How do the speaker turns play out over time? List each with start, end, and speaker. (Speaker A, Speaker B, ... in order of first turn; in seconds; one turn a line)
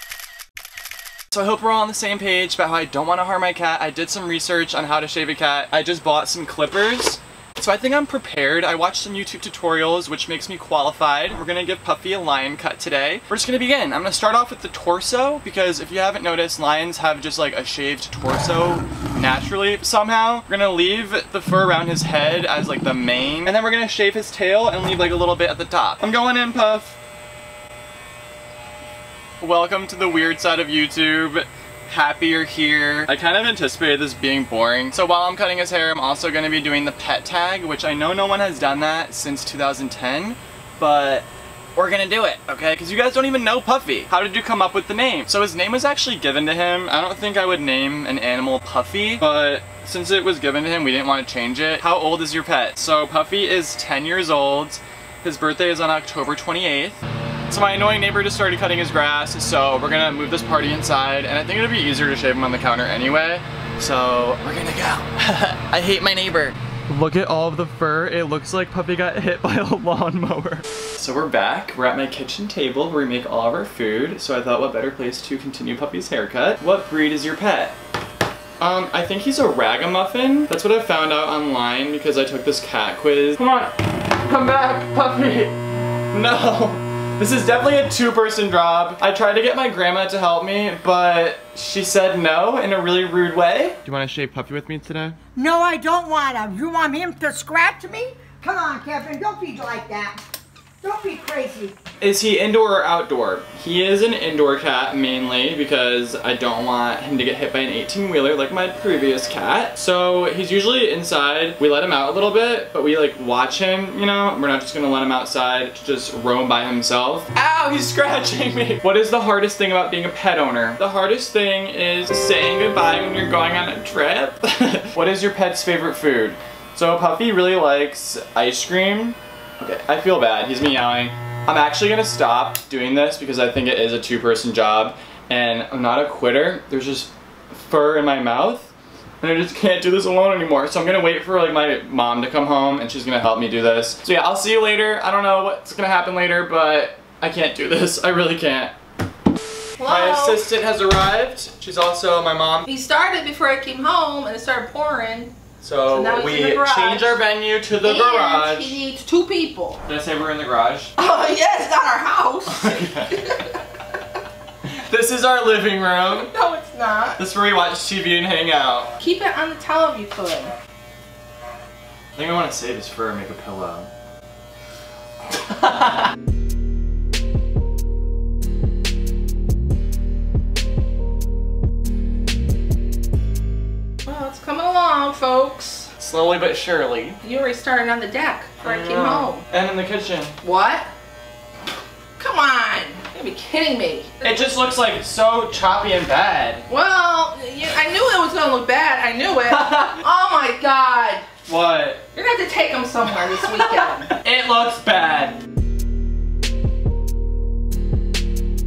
Speaker A: 1.3-27.0
Speaker A: 29.4-77.8
Speaker A: 78.6-85.5
Speaker A: 86.1-95.2
Speaker B: 95.3-100.2
Speaker B: 100.8-101.7
Speaker A: 102.0-148.7
Speaker C: 149.8-150.4
Speaker A: 149.8-152.7
Speaker C: 152.7-155.3
Speaker A: 155.6-158.8
Speaker C: 155.9-157.2
Speaker C: 157.8-159.8
Speaker A: 159.8-160.9
Speaker C: 161.0-163.6
Speaker A: 162.5-163.2
Speaker A: 164.7-166.3
Speaker C: 166.2-167.2
Speaker A: 167.2-168.9
Speaker C: 169.0-170.5
Speaker A: 172.1-173.9
Speaker A: 175.3-176.1
Speaker C: 184.1-185.9
Speaker A: 186.0-187.2
Speaker C: 187.2-189.4
Speaker A: 188.6-190.3
Speaker C: 190.4-190.9
Speaker C: 192.2-194.2
Speaker A: 194.2-196.7
Speaker C: 196.7-201.2
Speaker A: 199.4-200.0
Speaker A: 201.5-202.0
Speaker C: 202.1-204.1
Speaker A: 203.1-205.4